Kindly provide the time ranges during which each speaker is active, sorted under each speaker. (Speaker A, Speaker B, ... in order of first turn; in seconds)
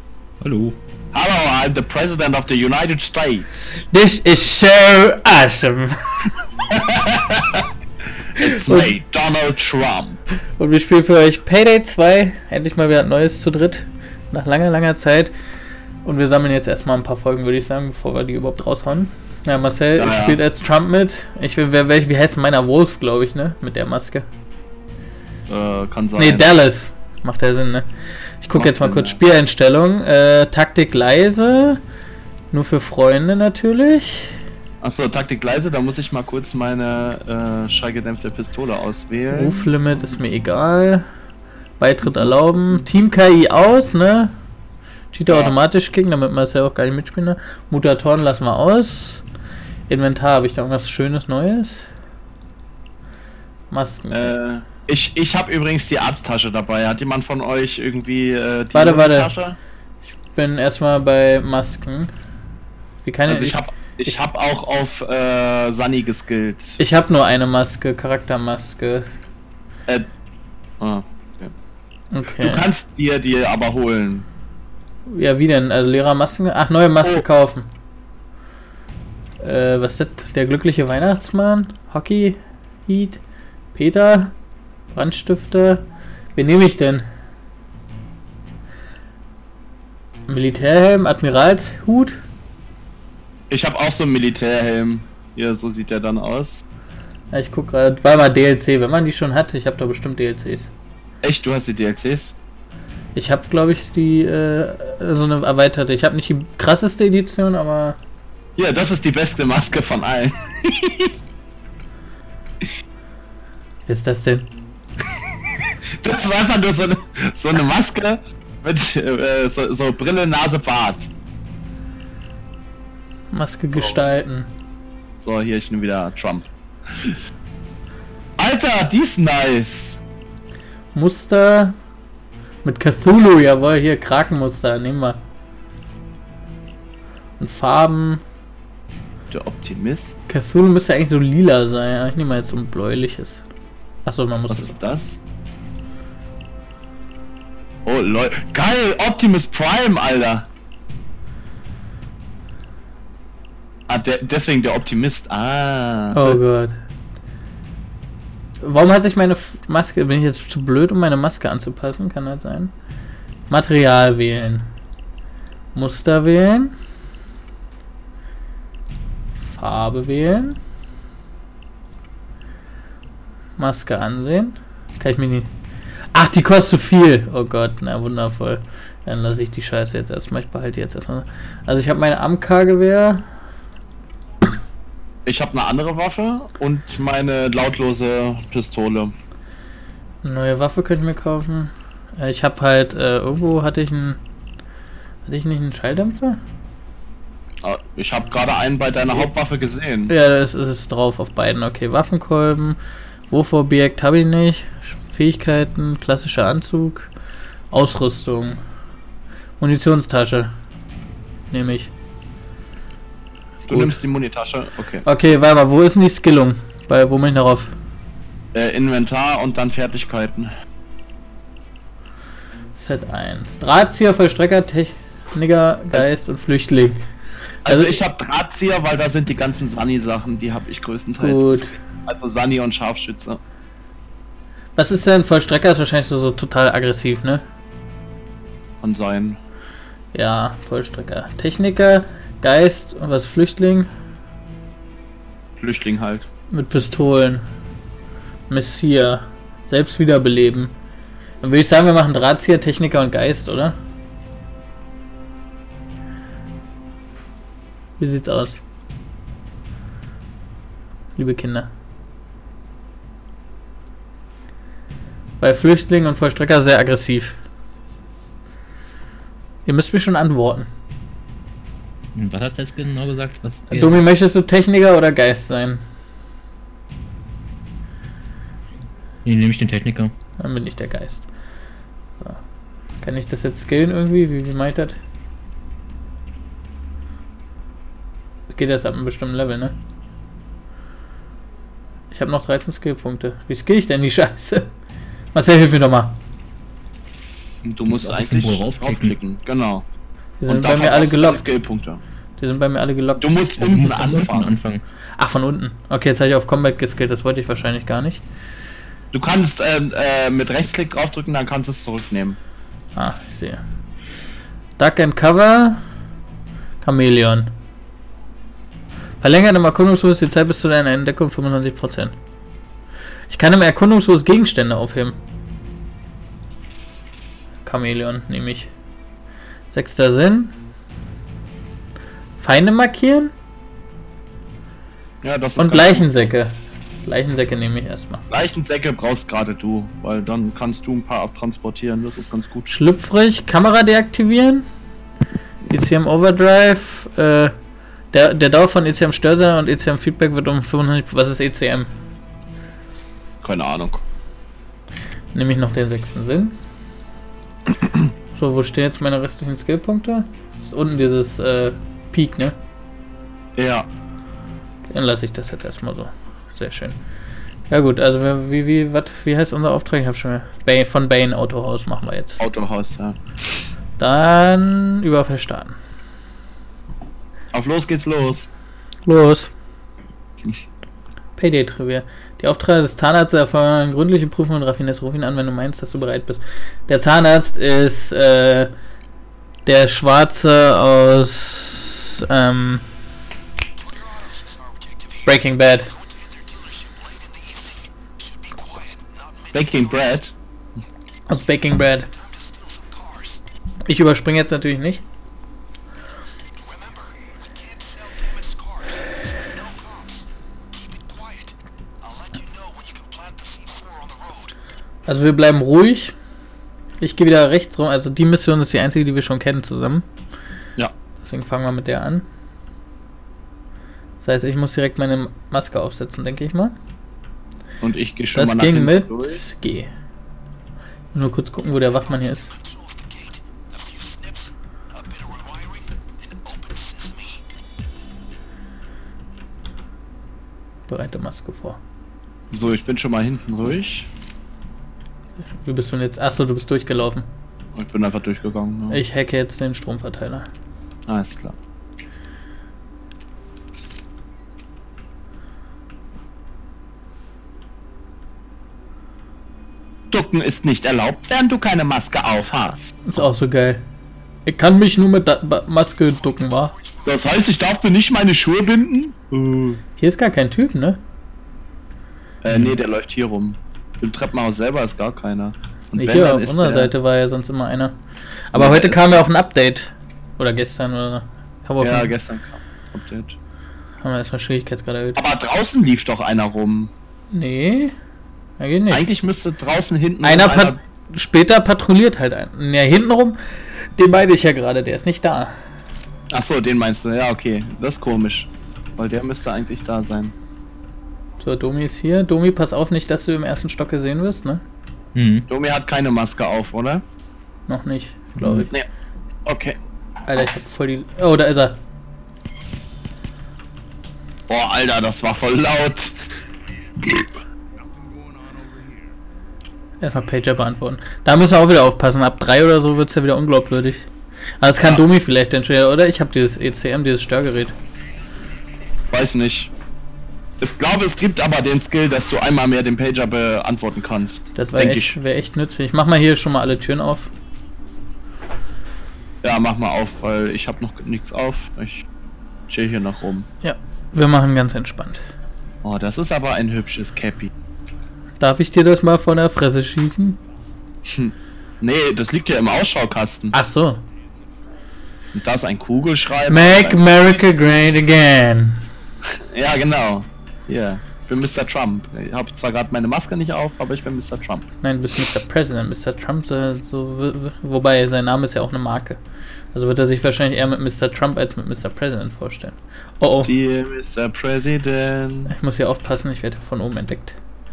Speaker A: 0.4-0.8, 272.1-274.0, 279.2-280.1, 297.9-299.1, 303.6-304.8, 505.1-505.4, 508.4-508.7
Speaker B: 1.1-3.8, 6.7-7.7, 8.3-10.2, 19.9-20.4, 25.5-26.5, 28.5-29.2, 34.8-39.7, 42.0-42.4, 45.3-45.5, 54.1-59.6, 63.3-66.8, 70.8-71.5, 72.3-74.2, 93.5-96.6, 101.2-102.3, 108.5-111.1, 116.0-121.1, 123.7-124.0, 125.2-127.2, 128.4-130.0, 139.3-140.1, 144.5-145.2, 147.8-150.5, 153.9-156.4, 185.2-189.1, 197.6-200.1, 213.7-215.0, 218.5-220.5, 227.6-233.4, 238.8-239.4, 245.6-246.3, 297.6-299.9, 300.5-302.0, 303.2-304.5, 309.1-312.4, 335.2-336.1, 338.3-342.7, 353.4-354.0, 363.6-363.9, 372.4-373.6, 377.5-378.5, 399.5-400.3, 427.8-429.4, 442.5-444.1, 447.8-449.0, 451.1-451.5, 460.1-463.0, 467.0-469.8, 472.4-476.9, 478.5-479.2, 481.8-483.4, 485.1-486.9, 488.9-490.8, 496.3-500.3, 505.5-507.0, 509.4-509.8, 514.5-516.1, 517.0-517.3, 524.8-525.0, 529.1-529.7, 530.6-535.1, 539.4-542.0, 542.7-543.5, 545.8-547.5, 551.0-553.5, 555.3-557.1, 559.4-564.6, 573.4-575.5
Speaker C: 3.9-6.3, 8.4-8.9, 10.6-15.3, 16.0-24.2, 26.2-27.9, 28.4-31.8, 32.5-34.4, 39.3-41.0, 41.8-44.3, 45.1-49.2, 49.9-51.9, 53.7-54.3, 58.7-59.3, 60.1-62.1, 63.0-64.2, 66.8-69.0, 72.1-72.7, 75.1-77.7, 79.4-83.2, 83.7-84.3, 84.9-87.0, 90.3-92.2, 97.3-100.7, 103.1-108.0, 113.8-114.5, 123.3-124.5, 130.9-131.8, 132.6-135.2, 137.4-138.2, 140.3-143.4, 144.0-144.8, 156.1-156.8, 158.6-162.7, 163.5-164.7, 165.7-166.7, 169.4-170.6, 173.6-175.5, 176.1-183.2, 190.2-194.2, 195.2-196.4, 200.1-202.8, 203.3-207.1, 207.7-208.6, 209.6-210.5, 211.5-211.9, 213.7-213.9, 215.0-217.7, 222.7-227.0, 227.7-228.0, 231.2-231.7, 234.8-237.4, 240.1-243.9, 246.5-247.4, 248.5-250.7, 251.4-253.8, 258.0-258.6, 261.1-261.7, 265.4-267.4, 269.6-270.7, 273.7-275.8, 280.4-281.3, 283.0-284.9, 288.5-289.7, 292.1-294.6, 295.3-296.1, 300.4-301.4, 302.4-303.4, 305.2-308.2, 312.9-313.6, 314.8-315.8, 316.8-317.5, 319.2-322.1, 323.3-325.2, 327.6-328.7, 329.7-330.6, 332.4-333.3, 335.6-338.2, 342.7-344.6, 345.7-347.5, 348.1-351.9, 355.3-356.5, 358.3-362.5, 364.9-367.0, 367.7-372.4, 374.0-375.8, 379.1-379.5, 381.4-388.7, 389.6-392.8, 395.2-395.9, 401.3-402.1, 403.9-405.0, 415.1-416.1, 417.0-420.1, 421.2-422.2, 424.2-426.7, 428.3-429.9, 431.1-432.5, 440.9-441.8, 445.4-447.3, 448.9-450.5, 463.1-463.8, 464.4-466.7, 470.0-471.0, 475.9-477.9, 478.5-482.1, 484.0-485.2, 487.3-487.9, 488.6-489.1, 490.2-495.5, 501.4-504.6, 507.7-508.7, 510.2-511.8, 520.0-524.1, 524.6-527.7, 534.5-537.3, 543.6-545.2, 548.4-550.4, 553.5-554.0, 556.5-558.8, 564.8-569.2, 569.7-573.5, 575.5-577.4